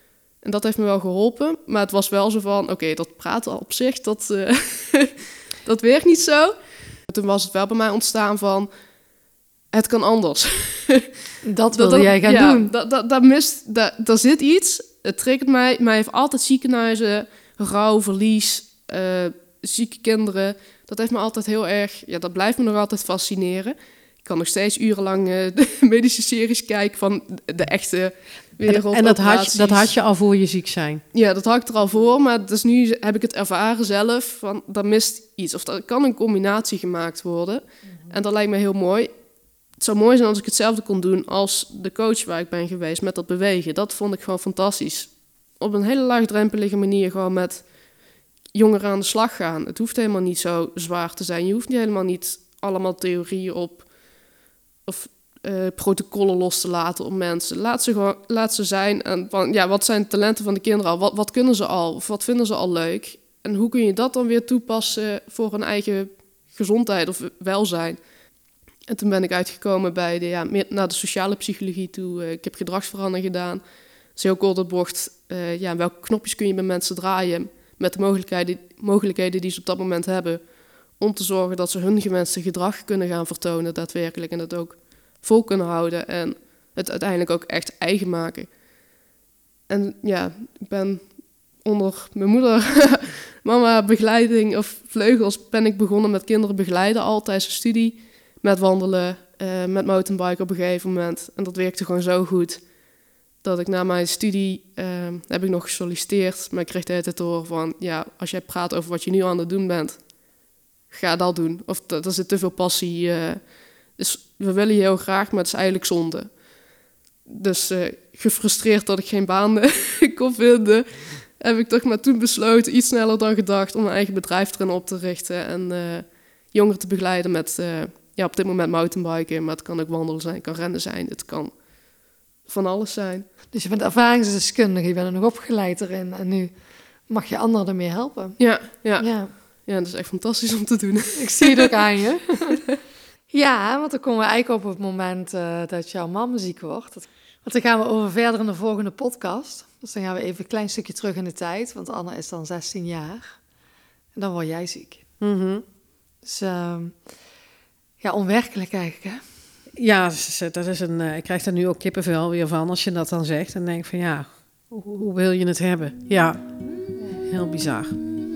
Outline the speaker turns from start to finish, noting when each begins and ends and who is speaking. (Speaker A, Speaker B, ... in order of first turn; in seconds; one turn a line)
Speaker A: 0.4-6.6
Speaker A: 7.1-8.7
Speaker A: 9.7-11.1
Speaker B: 11.4-12.7
Speaker A: 11.7-29.9
Speaker C: 28.7-31.0
Speaker A: 31.1-39.1
Speaker A: 39.8-47.7
Speaker A: 48.5-53.9
Speaker A: 54.9-68.0
Speaker A: 68.9-73.6
Speaker A: 74.1-88.5
Speaker A: 89.7-102.7
Speaker A: 103.4-110.1
Speaker A: 110.9-116.4
Speaker A: 117.3-131.6
Speaker A: 132.4-133.3
Speaker B: 133.5-138.4
Speaker A: 138.4-141.7
Speaker B: 139.0-139.3
Speaker B: 141.2-142.6
Speaker B: 143.3-153.4
Speaker B: 154.1-155.1
Speaker C: 155.2-155.6
Speaker B: 156.2-157.0
Speaker B: 158.0-159.3
Speaker C: 159.8-166.4
Speaker C: 167.1-167.9